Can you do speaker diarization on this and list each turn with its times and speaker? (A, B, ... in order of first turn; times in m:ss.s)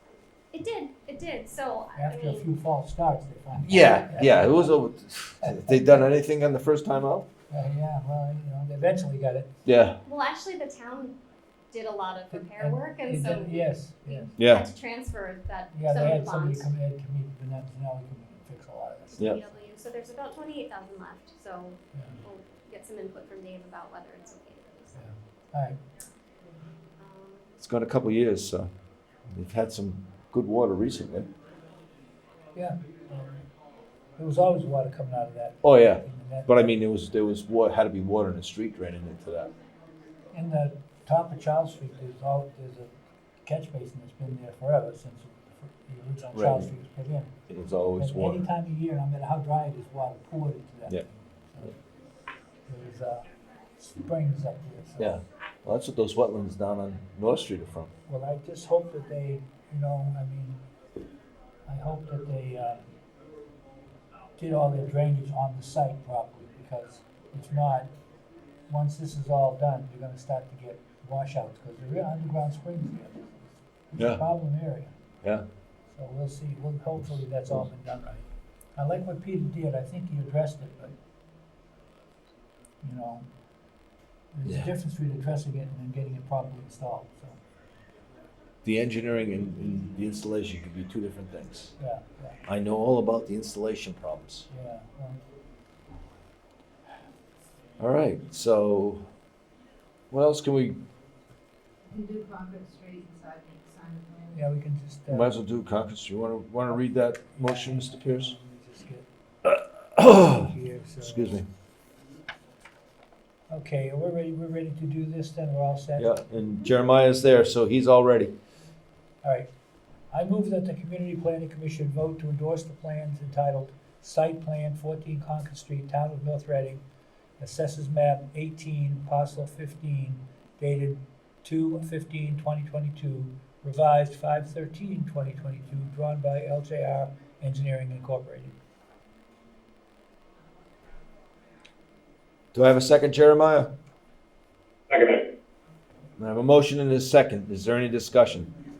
0:00.5-0:02.5 A
0:02.0-0:04.8 B
0:03.6-0:07.3 C
0:05.4-0:06.0 B
0:07.5-0:09.6 B
0:09.7-0:10.0 C
0:10.0-0:11.2 A
0:11.7-0:16.7 A
0:12.3-0:14.3 B
0:14.4-0:14.7 C
0:15.7-0:19.2 B
0:19.2-0:25.0 A
0:21.9-0:22.2 B
0:25.0-0:25.8 B
0:27.0-0:27.6 A
0:27.6-0:28.7 C
0:29.3-0:31.3 C
0:32.6-0:33.4 B
0:34.2-0:36.7 B
0:35.6-0:39.5 C
0:40.3-0:42.9 B
0:43.4-0:47.3 B
0:46.3-0:46.7 C
0:47.5-0:48.4 C
0:48.0-0:51.8 B
0:52.7-0:53.2 B
0:53.8-0:55.2 B
0:55.0-0:57.9 C
0:58.1-1:00.6 B
1:01.7-1:02.9 B
1:04.4-1:07.9 B
1:08.7-1:15.0 B
1:14.0-1:14.2 C
1:15.9-1:18.2 B
1:18.8-1:21.0 B
1:22.8-1:23.2 B
1:24.3-1:27.4 B
1:28.6-1:31.7 C
1:31.8-1:32.4 B
1:32.5-1:34.5 C
1:34.5-1:35.2 B
1:37.8-1:39.0 C
1:40.1-1:40.8 C
1:41.9-1:44.4 D
1:44.3-1:45.3 B
1:45.1-1:48.3 C
1:47.4-1:49.1 B
1:49.4-1:50.5 C
1:50.0-1:51.4 B
1:51.0-1:51.5 C
1:53.5-1:56.2 B
1:56.0-1:58.3 C
1:59.2-1:59.5 B
2:00.1-2:06.8 B
2:07.4-2:18.6 B
2:22.5-2:23.7 C
2:26.2-2:28.5 C